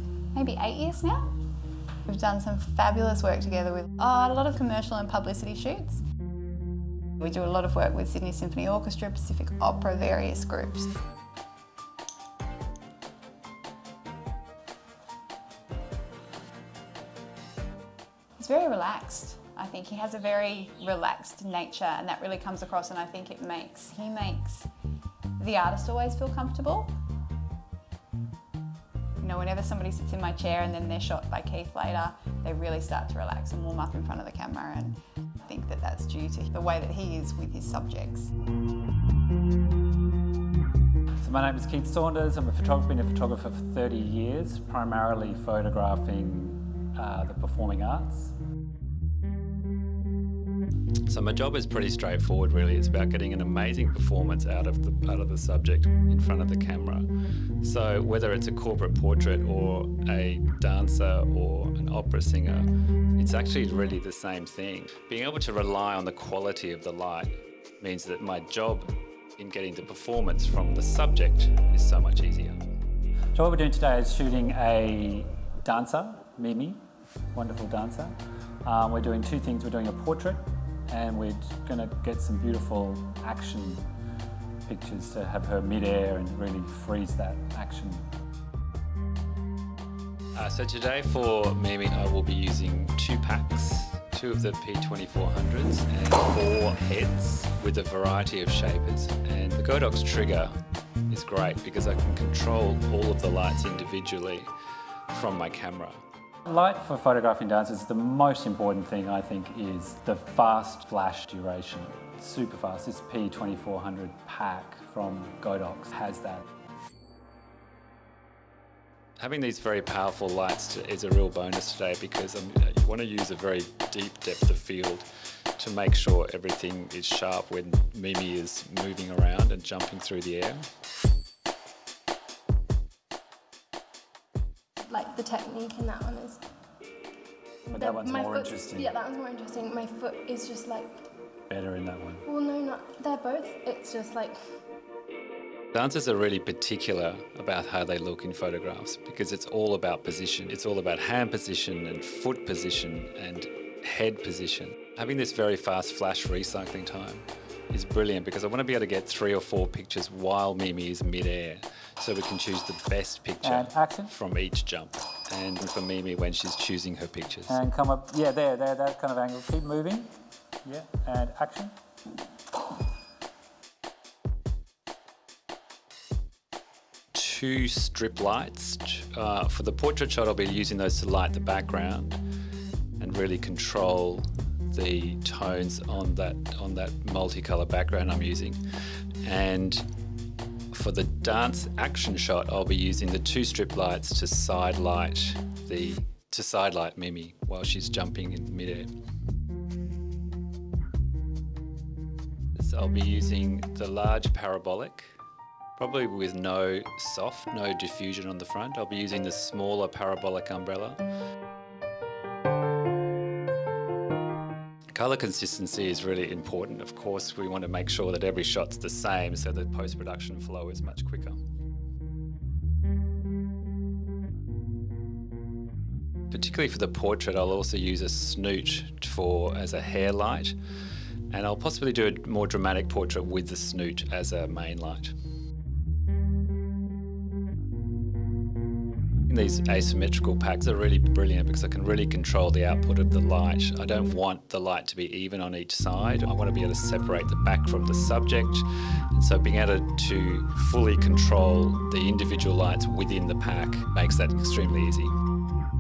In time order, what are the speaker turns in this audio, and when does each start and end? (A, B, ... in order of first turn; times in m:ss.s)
0:00.3-0:01.3 A
0:02.1-0:06.0 A
0:07.2-0:10.9 A
0:18.4-0:24.7 A
0:25.4-0:27.0 A
0:29.2-0:38.3 A
0:41.2-0:48.4 B
0:51.1-0:57.1 C
0:57.6-1:12.6 C
1:13.4-1:16.8 B
1:17.3-1:23.8 B
1:24.7-1:28.1 B
1:30.4-1:40.6 C
1:41.1-1:44.5 C
1:45.1-1:46.0 C
1:46.5-1:56.4 B
1:59.2-2:10.7 C
2:14.9-2:16.4 D
2:17.6-2:21.1 D
2:17.7-2:18.9 B
2:21.5-2:22.3 B
2:22.3-2:24.4 D
2:25.7-2:47.6 C
2:43.4-2:44.1 B
2:47.5-2:50.1 B
2:50.6-2:51.8 B
2:57.2-3:02.2 C
3:03.0-3:08.6 C
3:09.2-3:09.8 C
3:10.7-3:18.9 C
3:15.5-3:16.3 B
3:22.6-3:25.1 C
3:25.8-3:30.9 C
3:35.0-3:38.9 B
3:36.3-3:36.7 C
3:38.9-3:39.7 C
3:39.7-3:41.0 B
3:40.7-3:41.4 C
3:46.3-3:50.5 C
3:48.7-3:49.1 B
3:51.3-3:51.8 C
3:51.6-3:53.5 B
3:53.5-3:54.8 C
3:54.3-3:55.1 B
3:59.3-3:59.9 B
3:59.4-4:15.1 C
4:02.6-4:02.8 B